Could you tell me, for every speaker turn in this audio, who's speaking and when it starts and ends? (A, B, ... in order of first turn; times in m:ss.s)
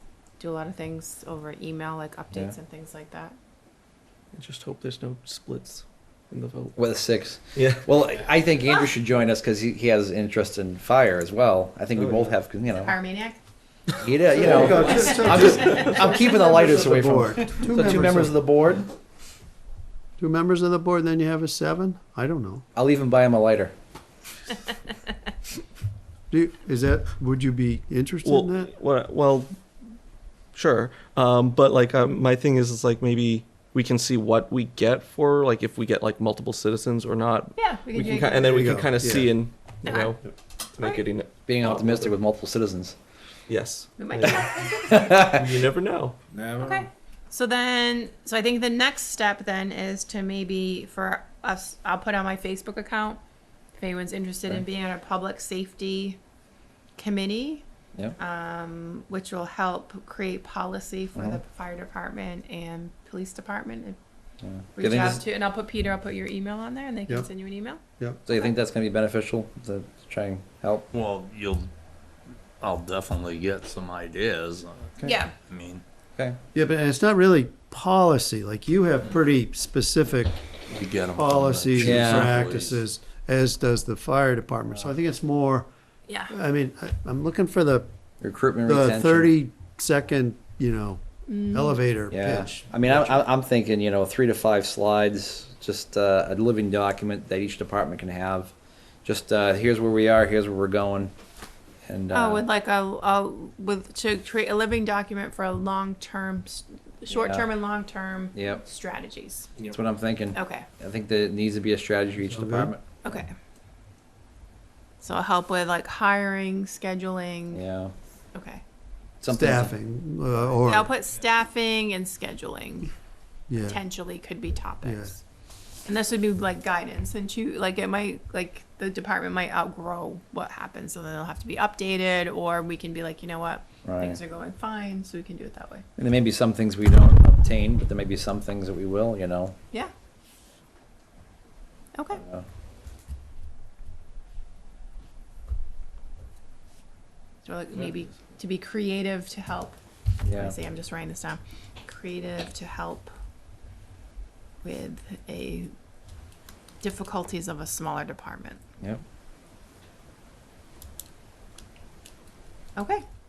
0:00.4-0:03.4 A
0:04.3-0:06.8 B
0:06.8-0:13.0 C
0:07.6-0:07.8 B
0:12.8-0:13.4 A
0:14.0-0:18.9 C
0:14.3-0:18.4 D
0:15.6-0:16.0 B
0:15.6-0:15.9 A
0:20.2-0:22.6 D
0:22.8-0:23.7 C
0:26.3-0:28.7 D
0:28.2-0:29.6 B
0:30.5-0:42.0 B
0:37.6-0:38.9 A
0:38.5-0:39.4 D
0:39.8-0:40.2 A
0:41.5-0:43.0 C
0:43.5-0:46.2 B
0:44.0-0:45.4 A
0:45.0-0:45.4 C
0:46.6-0:53.2 A
0:53.8-0:56.2 A
0:57.0-0:57.6 A
0:58.2-1:04.0 A
1:04.4-1:05.2 C
1:04.8-1:07.8 A
1:08.3-1:10.9 C
1:10.9-1:11.7 E
1:12.6-1:15.8 E
1:15.0-1:15.3 A
1:16.5-1:20.4 D
1:20.7-1:22.8 E
1:21.1-1:25.7 D
1:21.8-1:22.4 C
1:26.3-1:27.9 D
1:28.2-1:29.3 C
1:28.6-1:33.2 D
1:31.3-1:31.8 A
1:32.1-1:41.1 C
1:41.9-1:42.5 C
1:42.1-1:49.5 A
1:47.1-1:47.5 C
1:48.3-1:48.6 C
1:49.7-1:53.0 C
1:50.3-1:50.7 A
1:52.2-1:52.7 D
1:53.0-1:53.3 A
1:55.0-1:57.6 A
1:57.5-1:57.9 C
1:58.3-1:58.6 A
1:59.2-1:59.7 C
1:59.3-2:00.9 D
2:00.6-2:02.9 A
2:03.5-2:03.8 D
2:03.6-2:05.2 A
2:04.8-2:05.2 D
2:05.8-2:15.8 A
2:13.8-2:14.2 C
2:16.0-2:19.6 C
2:22.0-2:22.2 A
2:27.4-2:33.1 A
2:30.2-2:30.6 C
2:34.6-2:35.7 A
2:36.8-2:38.6 A
2:42.8-2:43.0 A